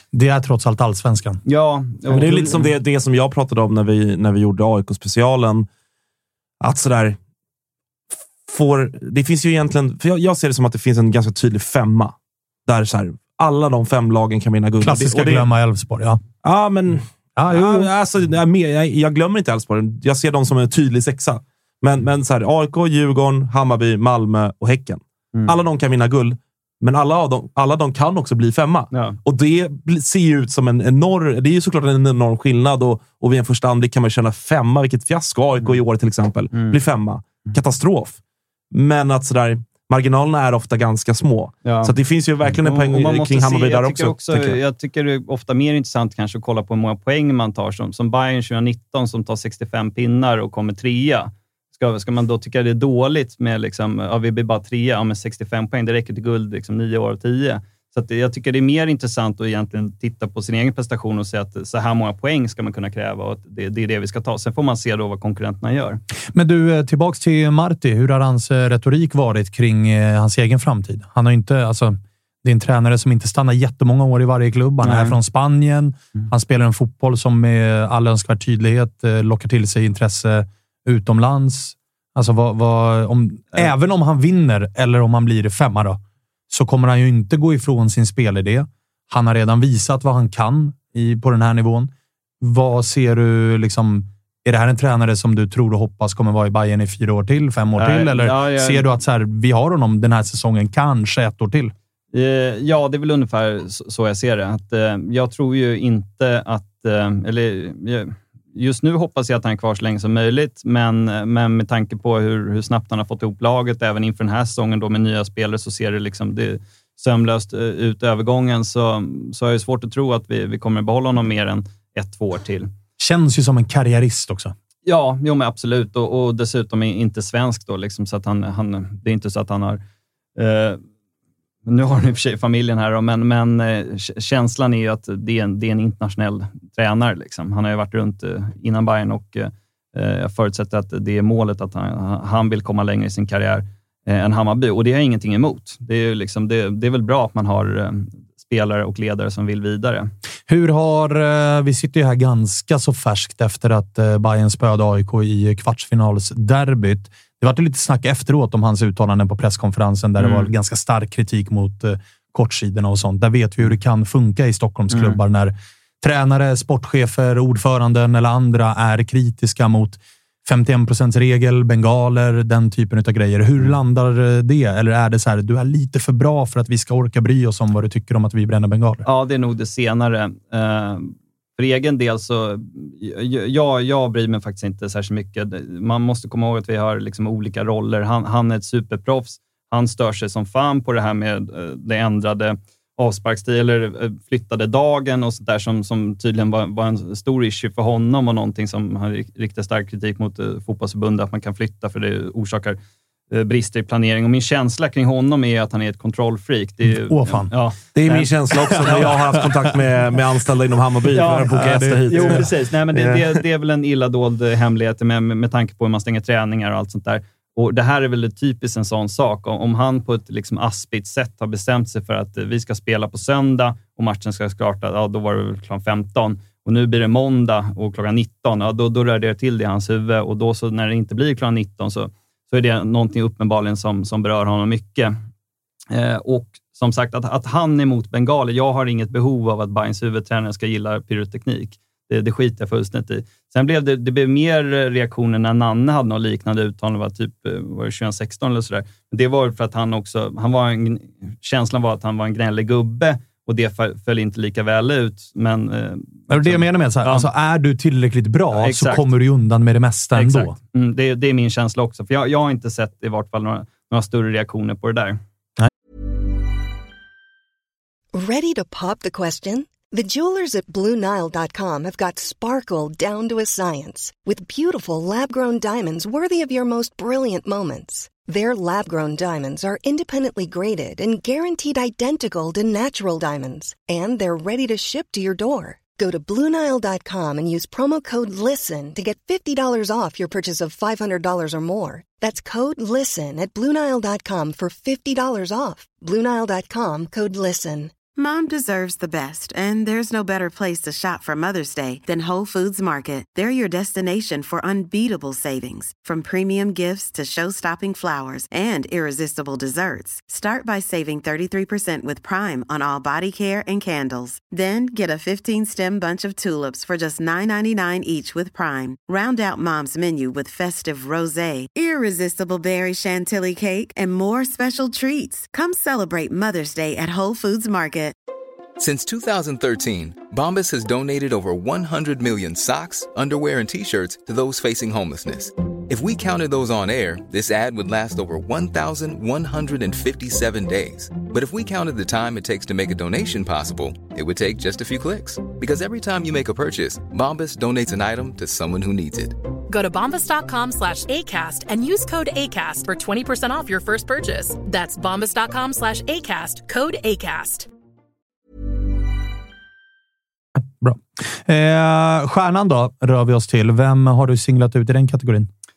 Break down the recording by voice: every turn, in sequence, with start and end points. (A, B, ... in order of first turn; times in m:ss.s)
0:00.1-0:01.4 A
0:01.4-0:02.7 B
0:02.1-0:05.7 C
0:06.6-0:07.2 C
0:08.5-0:12.1 C
0:12.6-0:15.5 C
0:14.8-0:16.2 A
0:16.4-0:38.2 C
0:17.4-0:17.9 A
0:28.9-0:29.2 B
0:38.7-0:44.6 C
0:41.6-0:41.9 B
0:42.4-1:06.0 B
1:06.3-1:41.7 A
1:14.8-1:15.2 B
1:37.8-1:38.9 B
1:42.1-2:02.7 B
2:03.0-2:04.5 A
2:04.8-2:09.8 B
2:10.4-2:10.8 B
2:11.7-2:30.1 B
2:30.5-2:59.0 A
2:40.2-2:40.5 B
2:44.9-2:45.2 B
2:59.0-3:22.8 B
3:23.3-3:29.0 B
3:26.8-3:27.5 A
3:27.9-3:33.2 C
3:28.8-3:29.2 A
3:31.1-3:31.6 B
3:31.4-3:32.4 A
3:32.1-3:55.1 B
3:55.9-4:17.2 B
4:16.3-4:20.6 A
4:18.5-4:19.1 B
4:20.1-4:25.2 B
4:28.1-4:57.9 D
4:58.2-5:28.1 E
5:28.8-5:49.4 F
5:49.7-5:57.7 G
6:00.6-6:05.5 A